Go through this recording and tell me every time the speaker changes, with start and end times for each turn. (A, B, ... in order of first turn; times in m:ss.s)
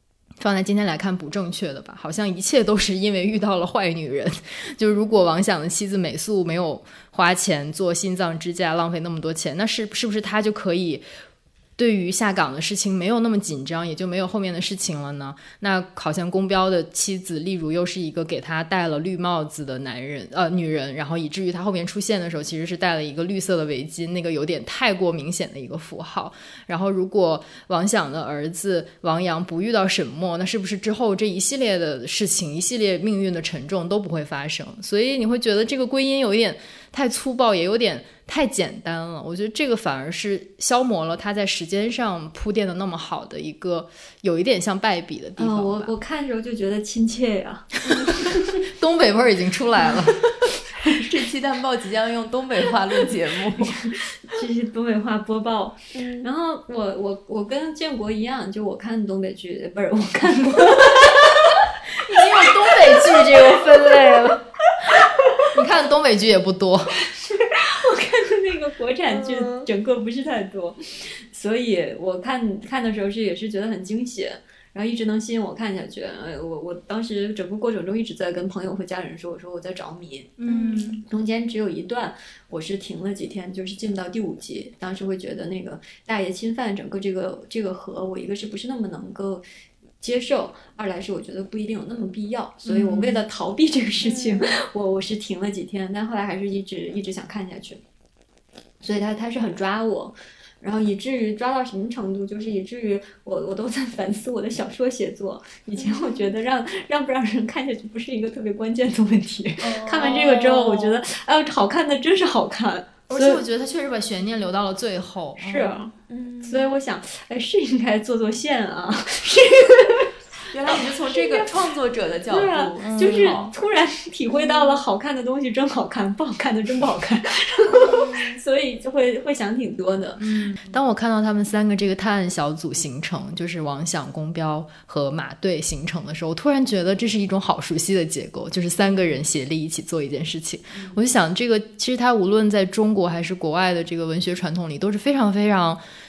0:00.4-0:11.0 A
0:11.8-0:45.9 A
0:45.4-0:48.3 B
0:48.2-0:50.5 A
0:50.9-0:53.7 C
0:53.7-1:01.2 B
0:55.9-0:56.3 C
1:02.0-1:04.4 A
1:05.5-1:07.0 A
1:07.4-1:20.4 B
1:09.1-1:09.7 C
1:20.4-1:21.0 A
1:20.5-1:21.0 C
1:21.0-1:29.4 B
1:30.0-1:37.8 B
1:32.6-1:33.2 A
1:34.0-1:34.5 C
1:38.8-1:53.4 B
1:45.8-1:46.3 C
1:49.6-1:50.9 C
1:53.1-1:55.8 A
1:55.4-1:55.9 B
1:56.0-1:56.7 C
1:56.4-2:00.1 B
2:00.5-2:03.5 C
2:01.0-2:01.5 B
2:02.3-2:10.2 B
2:02.8-2:03.5 A
2:04.3-2:04.8 C
2:07.8-2:08.4 C
2:10.2-2:25.8 A